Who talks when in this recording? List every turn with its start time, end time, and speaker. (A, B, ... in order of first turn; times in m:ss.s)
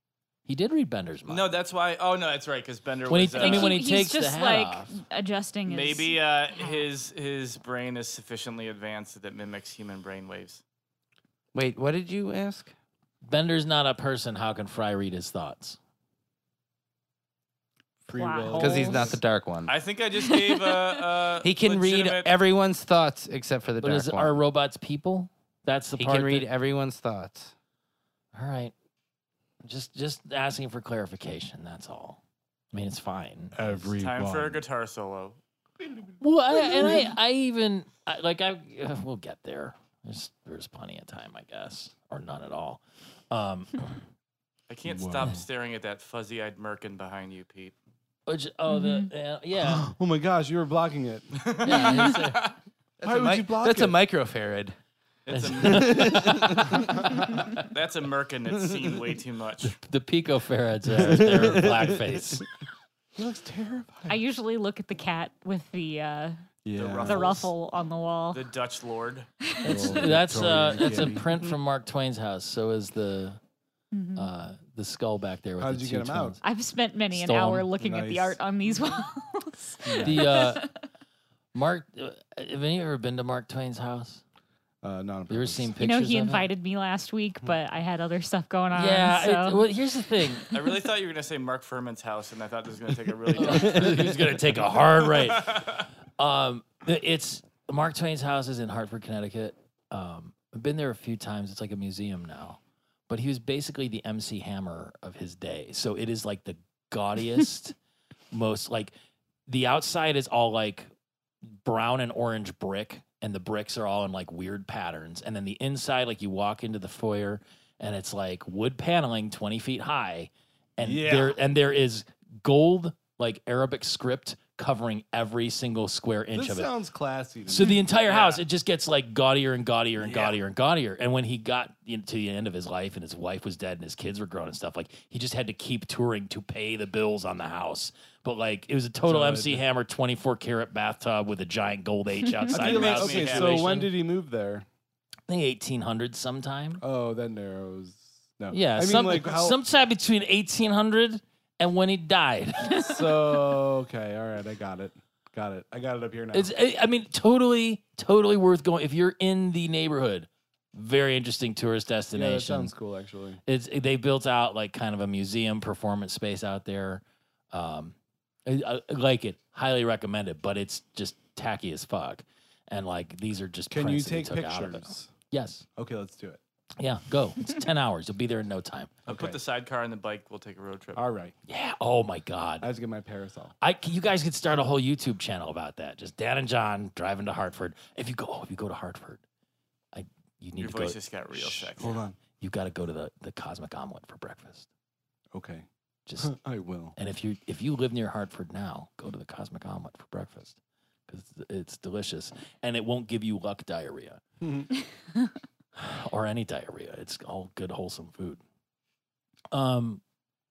0:00.5-0:01.5 A
0:01.3-0:03.8 B
0:03.1-0:05.0 A
0:03.4-0:06.9 C
0:05.7-0:10.6 B
0:11.5-0:12.7 D
0:13.3-0:15.8 A
0:18.1-0:19.2 E
0:18.1-0:19.1 C
0:18.6-0:19.8 D
0:19.7-0:22.3 B
0:20.2-0:20.7 C
0:21.4-0:24.4 D
0:23.8-0:26.5 A
0:26.0-0:27.5 D
0:28.3-0:28.7 A
0:29.6-0:32.2 A
0:32.7-0:33.9 A
0:33.5-0:34.6 E
0:34.0-0:35.4 B
0:35.8-0:37.1 E
0:36.2-0:44.0 A
0:44.7-0:47.8 B
0:44.8-0:45.4 E
0:48.3-0:49.9 A
0:48.7-0:49.1 C
0:49.6-0:51.6 E
0:51.4-0:52.5 B
0:51.6-0:52.5 A
0:51.7-0:52.1 C
0:53.0-0:54.0 E
0:53.0-0:54.8 D
0:55.3-0:56.2 B
0:55.3-0:57.7 A
0:55.6-0:56.9 D
0:57.5-0:59.8 B
0:58.6-0:58.9 D
0:59.6-1:02.4 A
1:00.9-1:02.4 D
1:03.2-1:04.2 E
1:04.1-1:06.4 C
1:06.6-1:07.4 E
1:06.8-1:07.5 B
1:07.0-1:08.4 C
1:08.3-1:09.3 B
1:09.4-1:10.1 C
1:09.6-1:13.4 A
1:09.7-1:11.3 E
1:13.9-1:14.3 C
1:14.2-1:16.4 A
1:15.6-1:16.4 E
1:16.4-1:20.7 C
1:17.1-1:17.7 A
1:17.8-1:18.4 E
1:19.8-1:20.3 E
1:19.9-1:20.6 A
1:21.5-1:24.2 A
1:24.8-1:25.7 E
1:25.3-1:26.5 A
1:25.8-1:29.6 C
1:28.7-1:30.6 A
1:30.5-1:35.7 B
1:33.3-1:47.8 A
1:33.5-1:33.8 D
1:48.3-1:48.9 A
1:49.5-1:50.9 A
1:51.6-2:06.7 A
2:00.8-2:01.4 E
2:06.3-2:07.8 E
2:07.5-2:24.0 A
2:08.1-2:08.4 B
2:10.1-2:10.3 B
2:19.0-2:19.6 E
2:22.5-2:23.8 B
2:22.5-2:24.7 E
2:25.3-2:26.8 A
2:26.8-2:29.6 E
2:28.5-2:33.1 A
2:32.8-2:36.5 E
2:36.3-2:42.7 A
2:42.1-2:43.4 E
2:43.5-2:48.0 A
2:48.5-2:55.7 A
2:53.7-2:55.1 E
2:55.8-2:56.4 E
2:56.8-2:59.0 A
2:59.1-2:59.4 E
2:59.1-3:01.0 B
3:01.0-3:01.4 E
3:01.5-3:02.7 A
3:02.6-3:03.5 E
3:03.6-3:09.2 A
3:09.9-3:11.0 A
3:10.6-3:12.0 B
3:11.3-3:12.2 E
3:12.3-3:14.7 A
3:15.3-3:15.7 E
3:16.1-3:16.3 A
3:16.2-3:17.0 E
3:17.0-3:20.6 A
3:21.1-3:24.2 A
3:24.4-3:24.7 E
3:25.8-3:28.4 A
3:29.5-3:30.0 A